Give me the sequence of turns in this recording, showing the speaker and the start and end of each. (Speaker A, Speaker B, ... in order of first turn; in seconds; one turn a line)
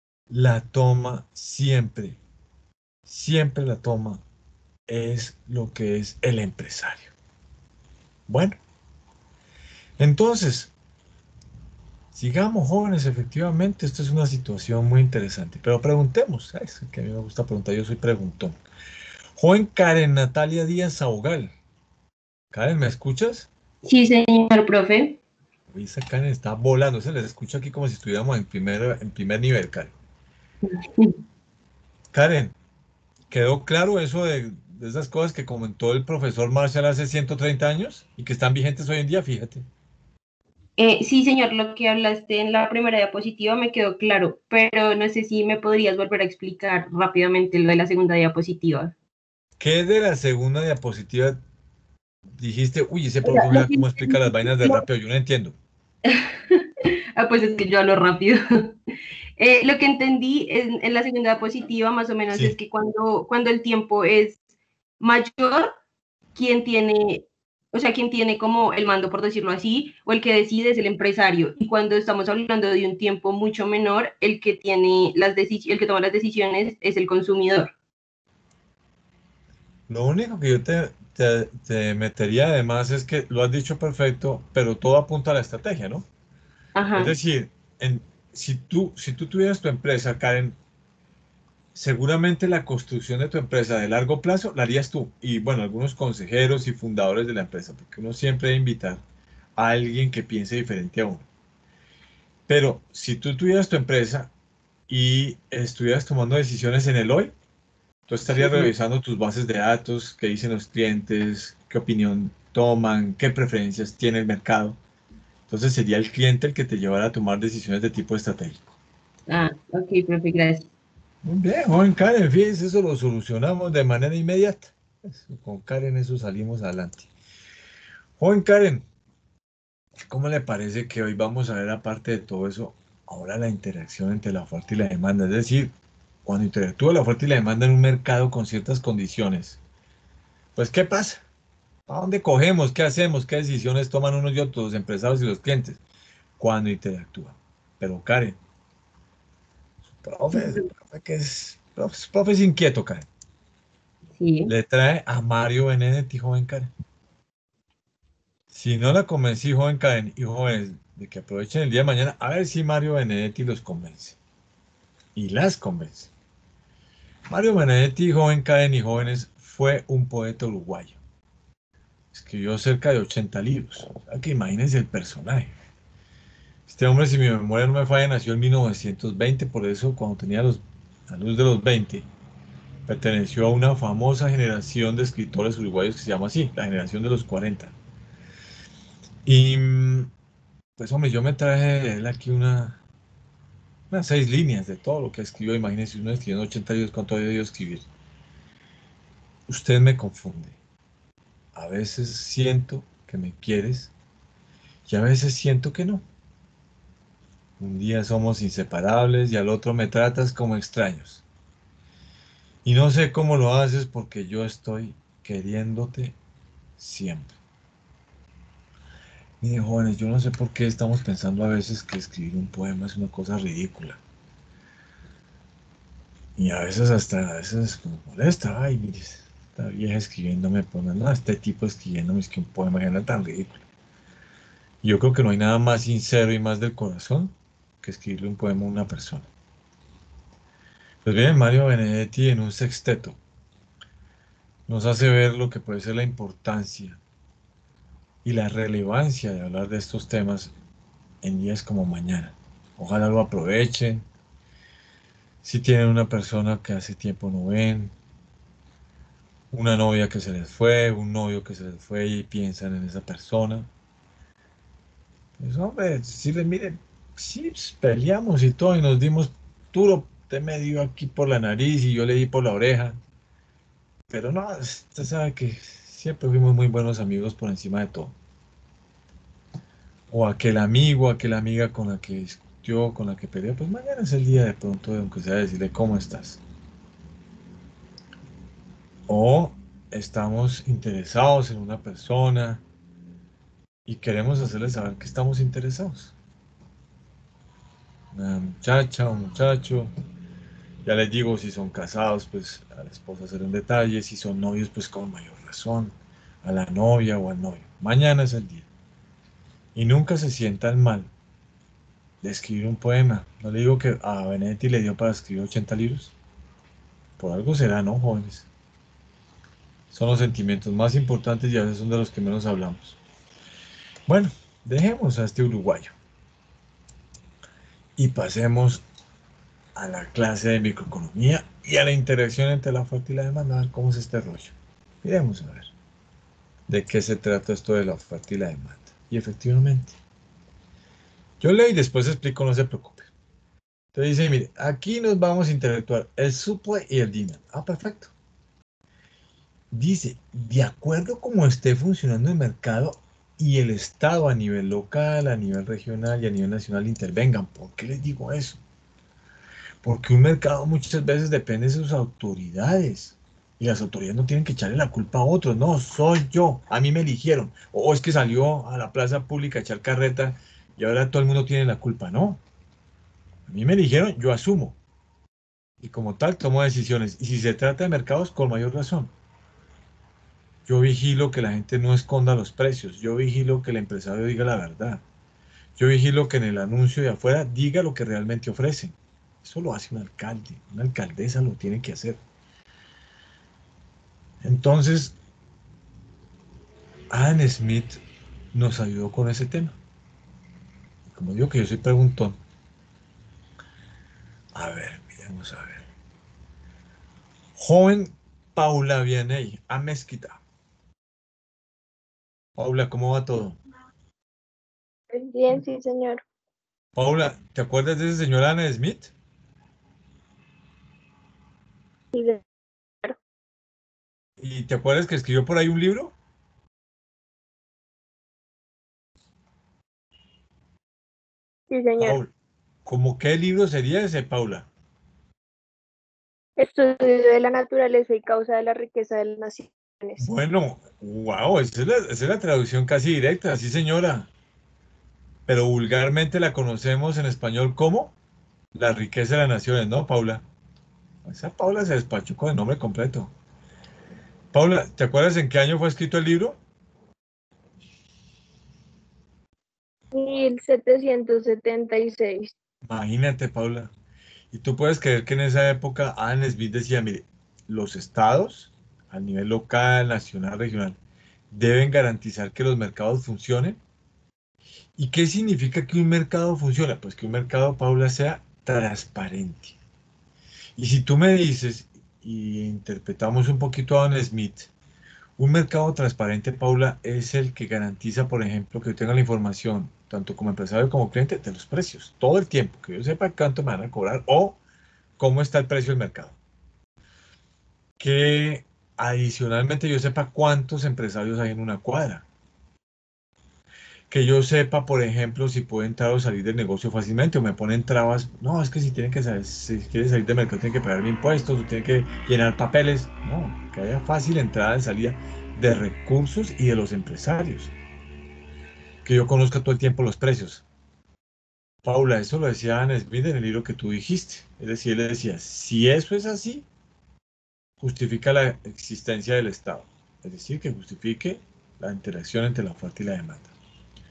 Speaker A: 0.3-2.2
Speaker A: 3.1-4.2
Speaker A: 4.9-7.1
Speaker A: 8.3-8.6
Speaker A: 10.0-10.7
Speaker A: 12.1-18.6
Speaker A: 19.4-21.5
Speaker A: 22.5-23.5
Speaker B: 23.9-25.2
Speaker A: 25.7-29.9
Speaker B: 30.7-31.2
Speaker A: 32.1-32.5
Speaker A: 33.3-39.7
Speaker B: 40.8-49.0
Speaker A: 49.6-51.4
Speaker A: 52.4-55.6
Speaker B: 53.2-54.8
Speaker B: 56.1-56.6
Speaker B: 57.2-58.7
Speaker B: 59.4-64.4
Speaker B: 65.0-65.7
Speaker B: 66.3-77.7
Speaker A: 79.9-86.1
Speaker B: 86.8-87.1
Speaker A: 87.0-90.5
Speaker A: 91.8-99.0
Speaker A: 99.6-101.3
Speaker A: 102.5-104.3
Speaker A: 104.9-107.3
Speaker A: 108.1-114.8
Speaker B: 108.4-108.7
Speaker A: 115.5-118.7
Speaker B: 119.3-120.7
Speaker A: 121.2-127.1
Speaker A: 128.2-128.9
Speaker A: 130.1-139.6
Speaker A: 140.6-141.2
Speaker A: 141.9-145.8
Speaker A: 146.4-148.4
Speaker A: 149.8-153.1
Speaker B: 150.3-150.6
Speaker B: 154.2-154.5
Speaker A: 154.5-156.7
Speaker A: 158.5-164.2
Speaker A: 165.2-166.1
Speaker A: 167.3-171.0
Speaker A: 172.1-175.6
Speaker A: 176.7-182.1
Speaker A: 182.9-187.7
Speaker A: 189.2-190.1
Speaker A: 190.8-192.8
Speaker A: 193.9-197.9
Speaker A: 199.5-200.6
Speaker A: 201.5-203.9
Speaker A: 204.9-206.1
Speaker A: 207.6-211.2
Speaker A: 212.7-216.2
Speaker A: 216.8-217.4
Speaker A: 219.4-224.0
Speaker A: 226.4-233.6
Speaker A: 234.8-239.3
Speaker A: 241.0-243.2
Speaker A: 244.7-247.0
Speaker A: 248.2-250.5
Speaker A: 251.2-254.1
Speaker A: 255.4-257.9
Speaker A: 259.5-263.7
Speaker A: 265.4-273.0
Speaker A: 274.1-278.1
Speaker A: 280.1-286.4
Speaker A: 289.1-292.6
Speaker A: 293.9-296.1
Speaker A: 298.1-299.9
Speaker A: 300.8-308.7
Speaker A: 309.8-311.1
Speaker A: 312.2-316.1
Speaker A: 317.2-318.5
Speaker A: 319.9-323.0
Speaker A: 324.1-325.9
Speaker A: 328.0-328.8
Speaker A: 329.8-335.7
Speaker A: 336.7-340.0
Speaker A: 341.4-343.1
Speaker A: 343.9-348.1
Speaker A: 349.7-358.6
Speaker A: 359.8-372.4
Speaker A: 373.5-374.8
Speaker A: 375.8-379.1
Speaker A: 380.7-385.0
Speaker A: 385.8-392.2
Speaker A: 394.4-395.2
Speaker A: 397.1-398.0
Speaker A: 398.5-399.8
Speaker A: 401.1-402.4
Speaker A: 404.5-405.9
Speaker A: 407.6-410.4
Speaker A: 412.6-413.6
Speaker C: 415.1-416.2
Speaker A: 416.9-419.1
Speaker C: 422.1-422.4
Speaker A: 424.4-426.1
Speaker C: 431.7-432.2
Speaker A: 432.0-432.3
Speaker A: 432.9-434.7
Speaker C: 436.6-440.3
Speaker A: 440.2-444.3
Speaker A: 445.5-448.1
Speaker A: 448.8-450.4
Speaker A: 451.2-453.3
Speaker A: 454.5-456.6
Speaker C: 460.1-462.5
Speaker A: 462.9-463.9
Speaker A: 464.5-471.0
Speaker A: 471.5-473.8
Speaker A: 475.0-479.8
Speaker A: 480.8-484.7
Speaker A: 485.4-494.6
Speaker A: 495.2-496.4
Speaker A: 498.0-502.2
Speaker A: 504.1-517.7
Speaker A: 519.0-520.6
Speaker A: 521.8-526.7
Speaker A: 527.8-533.5